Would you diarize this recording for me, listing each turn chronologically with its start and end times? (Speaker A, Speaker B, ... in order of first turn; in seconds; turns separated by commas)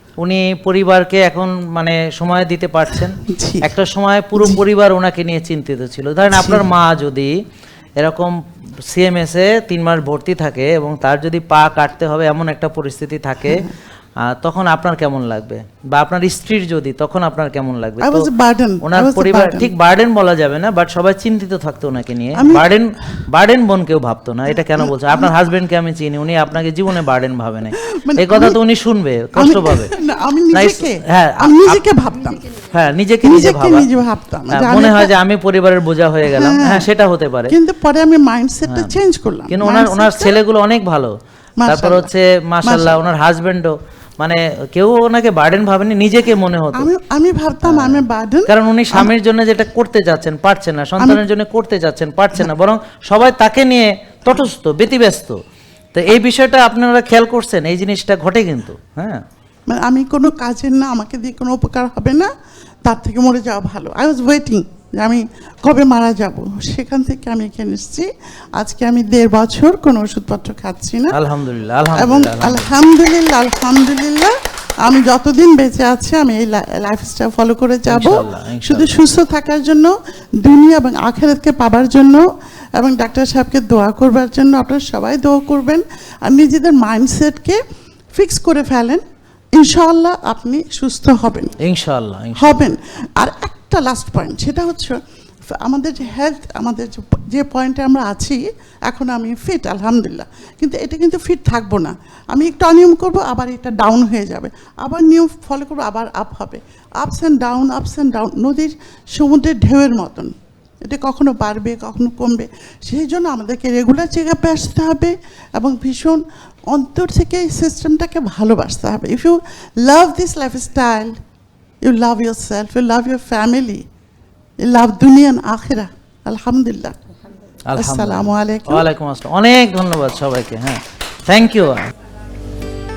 Speaker A: 0.2-7.3, Speaker B: 3.3-3.7, Speaker B: 6.3-6.7, Speaker A: 8.0-8.4, Speaker A: 8.9-13.7, Speaker A: 14.2-18.3, Speaker B: 18.0-19.7, Speaker A: 18.8-29.9, Speaker B: 22.4-22.7, Speaker B: 24.8-25.4, Speaker B: 27.8-28.6, Speaker B: 29.4-32.5, Speaker A: 30.5-31.8, Speaker A: 32.6-33.9, Speaker B: 33.2-35.1, Speaker A: 34.5-37.5, Speaker B: 36.3-36.9, Speaker B: 37.5-40.4, Speaker A: 38.7-39.0, Speaker A: 39.5-46.9, Speaker B: 41.6-42.1, Speaker B: 42.6-43.0, Speaker B: 46.7-49.1, Speaker A: 47.6-55.4, Speaker B: 51.0-51.2, Speaker A: 56.0-59.2, Speaker B: 59.7-62.3, Speaker B: 62.9-71.2, Speaker A: 71.1-72.7, Speaker B: 72.0-82.2, Speaker A: 77.9-79.0, Speaker B: 82.8-87.6, Speaker B: 88.2-89.0, Speaker B: 89.5-91.5, Speaker A: 91.6-92.7, Speaker B: 92.4-110.3, Speaker B: 110.8-121.2, Speaker B: 121.8-123.8, Speaker B: 124.6-127.0, Speaker A: 127.7-131.9, Speaker B: 127.8-128.8